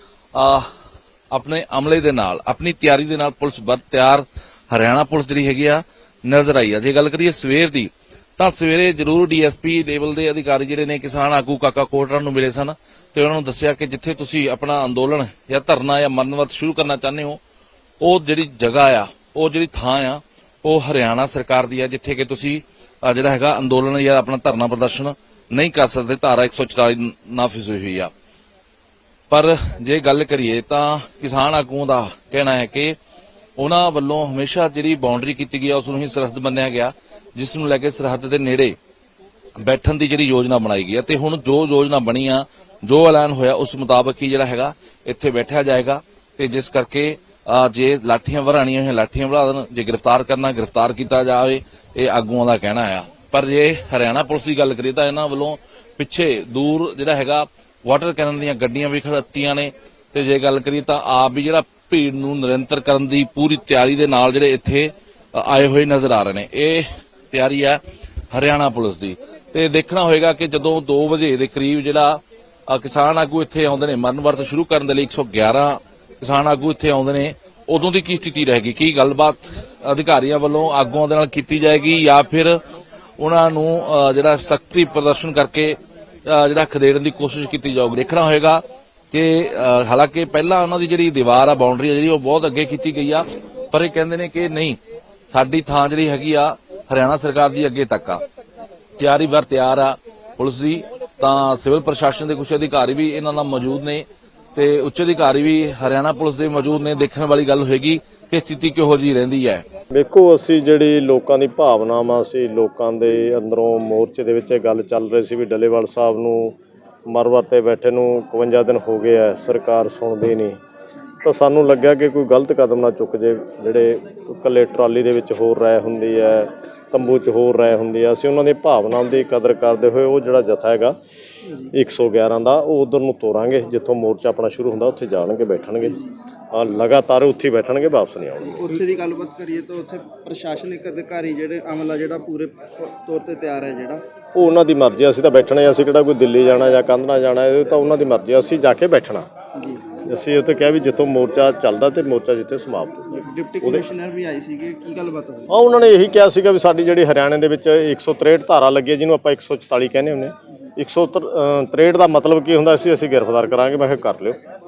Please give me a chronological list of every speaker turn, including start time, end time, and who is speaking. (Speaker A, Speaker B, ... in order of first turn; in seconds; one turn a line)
Speaker A: 0.3-0.7
Speaker A: 1.3-17.4
Speaker A: 18.0-28.1
Speaker A: 29.3-33.0
Speaker A: 33.6-38.7
Speaker A: 39.6-67.8
Speaker A: 68.3-82.6
Speaker A: 83.2-94.8
Speaker A: 95.3-98.2
Speaker A: 99.0-109.6
Speaker B: 109.9-116.6
Speaker B: 117.1-120.6
Speaker B: 121.2-130.9
Speaker C: 131.4-131.7
Speaker B: 131.7-136.0
Speaker C: 135.8-136.1
Speaker B: 136.5-138.6
Speaker C: 138.4-144.0
Speaker B: 144.3-149.2
Speaker C: 149.6-149.8
Speaker B: 150.0-153.8
Speaker C: 153.1-155.7
Speaker B: 155.5-164.4